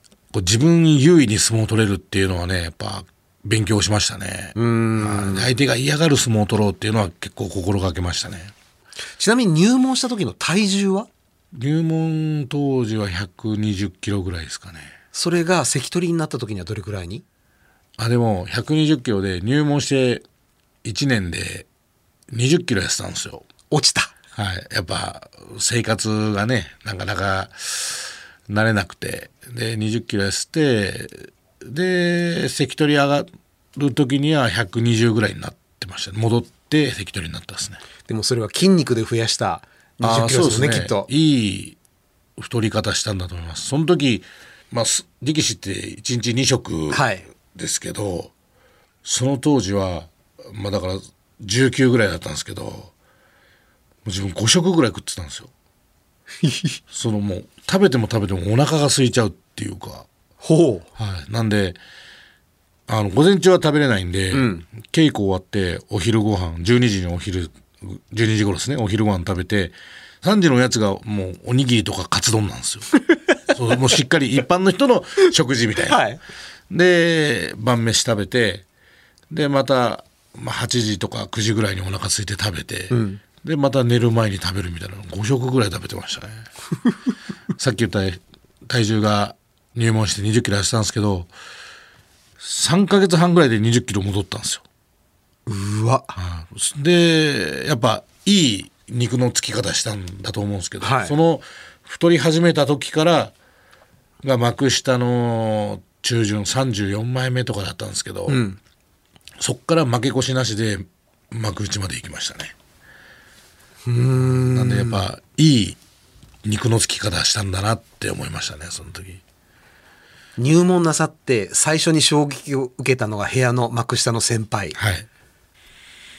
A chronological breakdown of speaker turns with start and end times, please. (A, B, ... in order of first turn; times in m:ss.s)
0:00.3-0:08.5 A
0:04.5-0:05.5 B
0:09.2-0:11.1 B
0:11.5-0:14.9 A
0:15.1-0:17.2 B
0:18.0-0:20.2 A
0:20.8-0:21.7 A
0:22.3-0:23.4 A
0:23.7-0:24.1 B
0:24.4-0:37.8 A
0:38.1-0:41.1 B
0:40.0-0:41.8 A
0:42.4-0:48.3 A
0:46.9-0:47.2 B
0:49.0-0:52.9 A
0:54.0-0:55.5 A
0:56.4-0:56.8 B
0:56.9-1:00.1 A
1:00.4-1:00.9 B
1:01.0-1:01.8 A
1:02.9-1:16.0 A
1:04.3-1:04.6 B
1:15.9-1:16.2 B
1:16.7-1:18.6 A
1:19.3-1:26.5 A
1:22.9-1:23.2 B
1:27.6-1:31.3 A
1:32.4-1:34.6 A
1:35.5-1:36.2 B
1:36.2-1:43.3 A
1:40.8-1:41.1 B
1:44.2-1:48.4 A
1:48.3-1:48.6 B
1:49.4-1:52.5 A
1:53.8-1:55.0 B
1:54.2-1:55.8 A
1:56.4-1:59.2 A
2:00.4-2:04.8 B
2:04.8-2:05.1 A